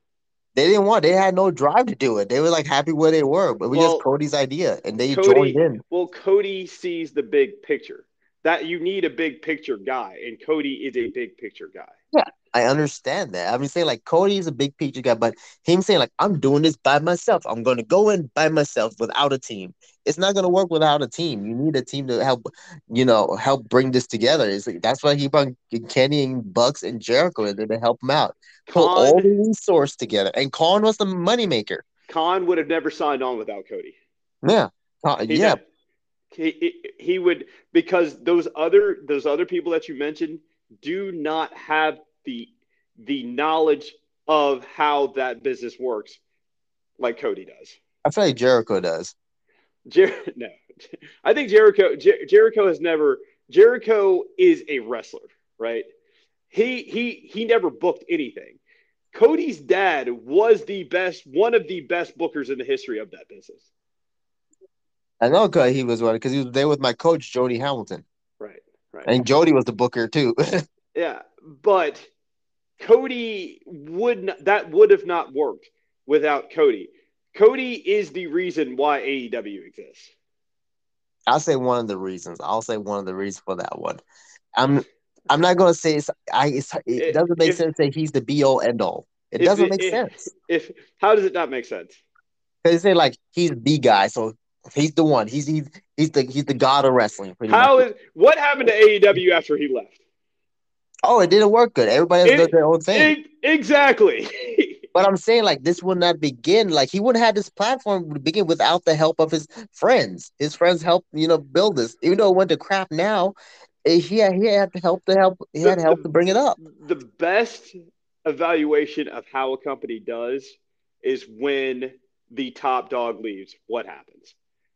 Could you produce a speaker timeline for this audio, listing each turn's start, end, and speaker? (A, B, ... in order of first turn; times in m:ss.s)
0:00.6-0:05.8 A
0:03.7-0:04.0 B
0:05.1-0:11.9 B
0:12.1-0:31.8 A
0:28.7-0:29.3 B
0:32.1-0:34.0 B
0:34.4-0:35.6 A
0:35.3-0:35.6 B
0:36.3-0:46.2 B
0:47.0-0:47.8 B
0:48.0-0:49.1 A
0:49.9-0:50.6 B
0:51.2-0:55.9 B
0:56.5-0:58.6 B
0:59.1-1:03.7 B
1:05.2-1:08.0 A
1:08.4-1:09.1 B
1:09.0-1:10.6 A
1:11.0-1:12.1 B
1:12.8-1:20.1 B
1:21.3-1:24.0 A
1:24.6-1:30.2 A
1:27.0-1:27.6 B
1:29.4-1:32.0 B
1:32.6-1:37.8 A
1:37.5-1:40.0 B
1:41.0-1:43.1 A
1:42.2-1:44.8 B
1:44.9-1:56.6 A
1:55.6-1:57.7 B
1:58.2-2:04.4 B